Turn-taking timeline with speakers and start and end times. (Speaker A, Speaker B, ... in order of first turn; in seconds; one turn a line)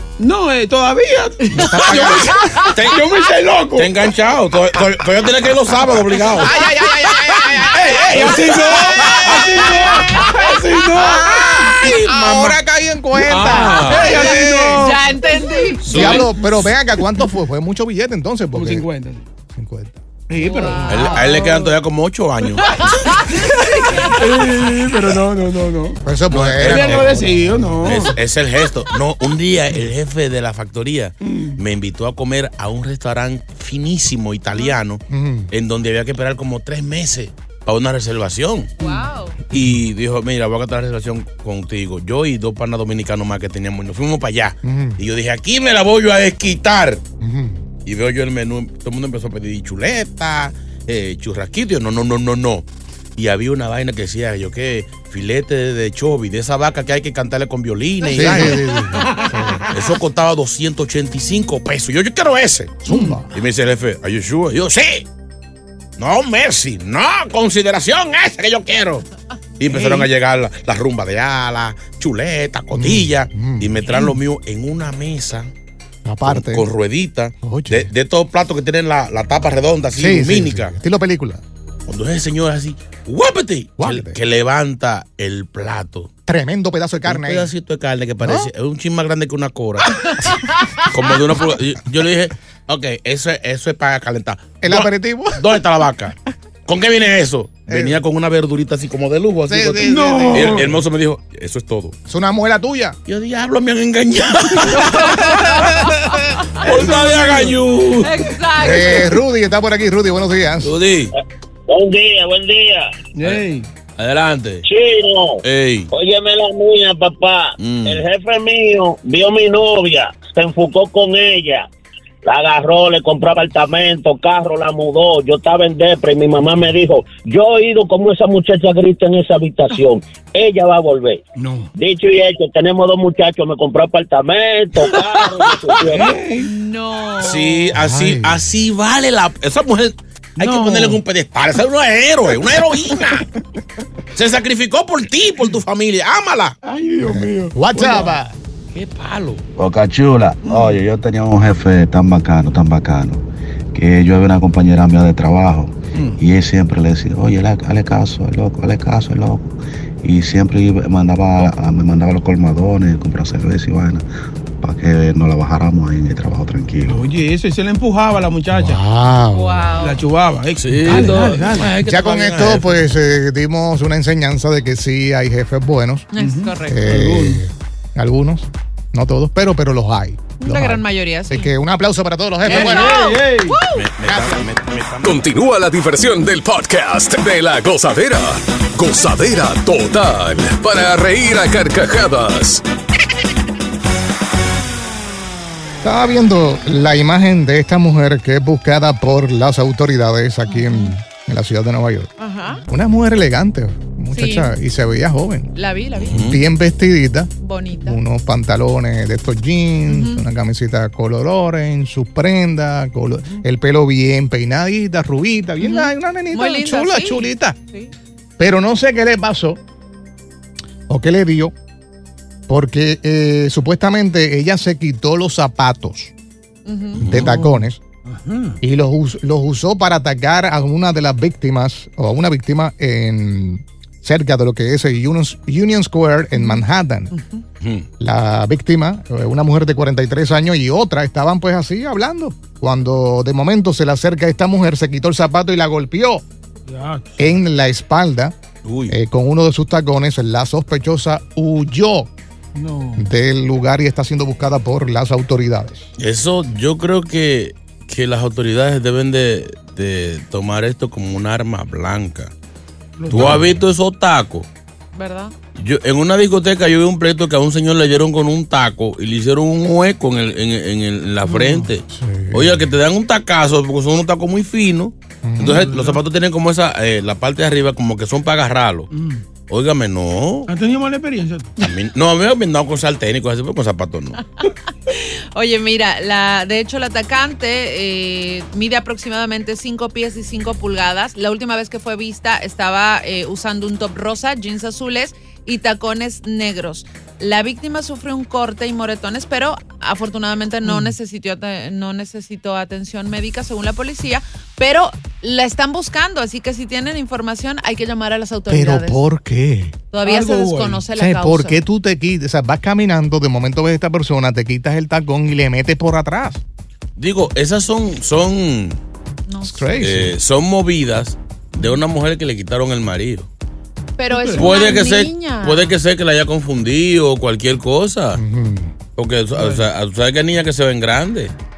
Speaker A: 0.2-4.1
Speaker B: 1.5-2.5
Speaker C: 2.4-2.7
Speaker D: 2.7-3.0
Speaker D: 3.7-6.5
Speaker B: 6.4-10.3
Speaker A: 7.5-11.4
Speaker D: 7.9-9.3
Speaker C: 10.2-10.7
Speaker B: 10.9-14.9
Speaker D: 11.5-12.5
Speaker D: 13.2-14.2
Speaker A: 13.3-15.0
Speaker C: 14.1-16.2
Speaker D: 15.8-16.3
Speaker B: 15.9-18.9
Speaker A: 18.5-19.2
Speaker B: 19.5-20.0
Speaker A: 20.3-21.2
Speaker C: 20.4-21.7
Speaker D: 20.9-22.8
Speaker C: 22.8-24.3
Speaker A: 24.1-26.0
Speaker B: 26.0-28.1
Speaker D: 26.3-27.2
Speaker A: 26.6-28.1
Speaker D: 27.8-38.7
Speaker A: 31.2-31.6
Speaker B: 35.1-35.5
Speaker C: 38.8-39.4
Speaker D: 39.5-47.0
Speaker B: 44.6-45.0
Speaker B: 47.2-47.6
Speaker D: 47.9-58.7
Speaker B: 58.1-59.7
Speaker D: 59.7-65.1
Speaker B: 62.9-63.3
Speaker A: 62.9-63.1
Speaker D: 66.0-69.0
Speaker D: 69.6-75.5
Speaker B: 72.7-73.9
Speaker B: 76.0-76.7
Speaker D: 76.2-80.7
Speaker B: 77.4-77.9
Speaker B: 79.9-81.4
Speaker D: 81.9-86.1
Speaker B: 83.8-84.2
Speaker B: 86.3-87.5
Speaker D: 87.0-90.0
Speaker B: 88.2-88.5
Speaker C: 90.0-90.8
Speaker D: 90.8-96.1
Speaker B: 94.6-95.5
Speaker D: 96.7-102.0
Speaker B: 97.7-98.0
Speaker B: 99.5-100.7
Speaker A: 99.8-100.8
Speaker B: 102.1-103.0
Speaker D: 103.1-105.7
Speaker C: 104.7-106.8
Speaker D: 106.6-108.2
Speaker A: 106.9-107.5
Speaker C: 108.0-109.2
Speaker B: 108.5-110.7
Speaker D: 110.6-111.1
Speaker E: 111.7-112.9
Speaker A: 113.1-113.7
Speaker D: 113.2-113.4
Speaker D: 114.0-114.7
Speaker E: 114.6-121.7
Speaker D: 115.4-115.9
Speaker D: 117.6-118.0
Speaker E: 122.2-131.2
Speaker A: 131.3-131.7
Speaker E: 131.8-136.2
Speaker A: 135.8-136.5
Speaker C: 136.4-137.7
Speaker D: 137.2-143.2
Speaker B: 137.7-138.4
Speaker A: 140.4-141.0
Speaker D: 144.2-146.6
Speaker A: 146.6-148.1
Speaker B: 147.0-148.3
Speaker D: 148.7-149.4
Speaker F: 149.6-153.2
Speaker A: 150.4-150.8
Speaker F: 153.7-164.0
Speaker F: 164.6-167.0
Speaker A: 166.8-168.8
Speaker B: 168.5-169.7
Speaker C: 169.3-170.0
Speaker A: 169.8-171.7
Speaker D: 170.5-172.8
Speaker B: 170.9-176.1
Speaker C: 176.1-176.9
Speaker A: 176.2-177.4
Speaker B: 176.6-183.1
Speaker C: 180.4-181.5
Speaker A: 182.4-183.6
Speaker C: 182.5-183.9
Speaker D: 183.7-185.2
Speaker B: 184.0-184.4
Speaker G: 185.0-192.6
Speaker B: 195.8-202.1
Speaker C: 200.5-200.9
Speaker C: 202.2-202.6
Speaker B: 202.7-205.5
Speaker C: 204.1-204.5
Speaker C: 205.6-206.2
Speaker B: 206.1-207.3
Speaker D: 206.1-206.4
Speaker C: 207.4-208.0
Speaker B: 207.8-217.6
Speaker C: 209.9-210.2
Speaker C: 215.6-217.9
Speaker B: 218.4-219.6
Speaker B: 220.9-221.5
Speaker B: 222.5-226.1
Speaker C: 226.7-227.2
Speaker D: 227.0-227.3
Speaker B: 227.0-227.8
Speaker A: 227.3-228.6
Speaker B: 228.6-237.1
Speaker A: 237.1-237.4
Speaker D: 237.6-237.9
Speaker B: 238.0-246.2
Speaker A: 246.7-247.4
Speaker B: 247.2-248.3
Speaker D: 248.6-248.9
Speaker B: 248.9-252.1
Speaker A: 252.5-253.1
Speaker B: 253.0-255.9
Speaker D: 256.0-262.3
Speaker A: 263.0-263.6
Speaker D: 263.1-264.5
Speaker B: 263.2-263.4
Speaker C: 264.9-265.3
Speaker D: 265.6-278.9
Speaker A: 271.3-271.7
Speaker B: 271.9-272.6
Speaker B: 275.2-275.7
Speaker A: 275.4-276.0
Speaker A: 278.9-279.2
Speaker D: 279.5-280.5
Speaker A: 280.5-281.6
Speaker D: 281.6-284.2
Speaker C: 284.9-309.0
Speaker A: 300.6-300.9
Speaker B: 308.5-309.8
Speaker C: 309.9-311.6
Speaker A: 310.0-310.8
Speaker B: 310.9-316.4
Speaker D: 316.9-318.8
Speaker C: 319.3-319.8
Speaker B: 319.4-320.1
Speaker D: 319.8-323.3
Speaker C: 324.0-325.8
Speaker A: 324.1-324.5
Speaker D: 324.3-328.2
Speaker B: 328.1-328.7
Speaker D: 328.9-331.3
Speaker A: 329.3-329.6